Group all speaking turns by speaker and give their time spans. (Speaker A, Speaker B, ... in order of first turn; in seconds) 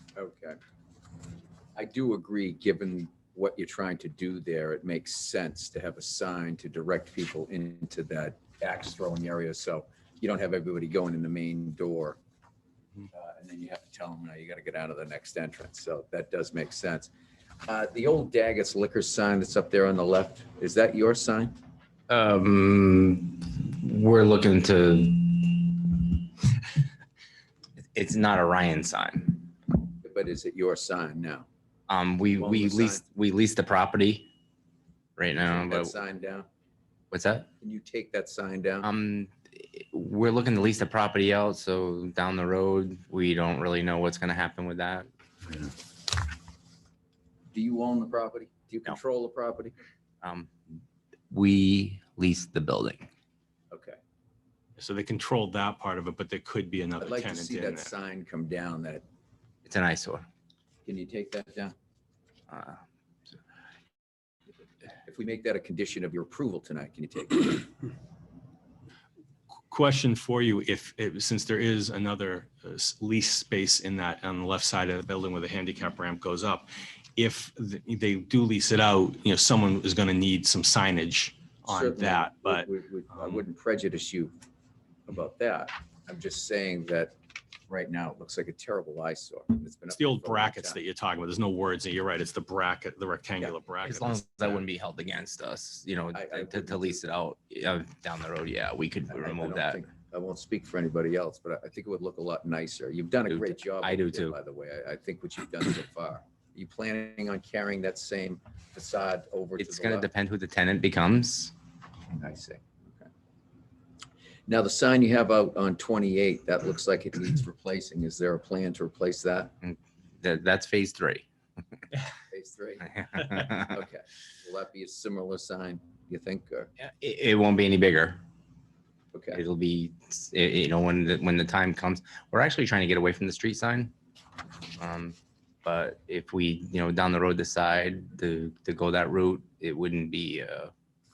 Speaker A: 0.1-0.6, 1.8-12.2, 13.1-17.1, 17.6-21.6, 30.0-31.5, 32.4-33.0, 35.4-36.5, 37.6-38.9, 47.5-49.7, 53.7-54.0, 57.0-59.0, 60.8-61.7, 65.0-67.7, 81.7-84.3, 85.1-87.1, 87.7-90.8, 96.1-97.1, 99.1-110.1, 112.1-113.1, 114.5-119.5, 122.3-126.7, 129.1-129.4
Speaker B: 22.1-26.2, 27.9-29.5, 31.9-34.3, 35.2-36.0, 37.1-37.5, 38.8-45.1, 50.2-50.5, 51.3-53.1, 59.6-60.2, 62.5-62.8, 93.8-99.9, 103.3-104.3, 109.6-111.5, 119.6-121.2, 122.9-123.7, 126.8-128.2, 129.3-133.9, 134.8-140.7
Speaker C: 54.8-57.9, 69.7-83.4, 89.9-94.6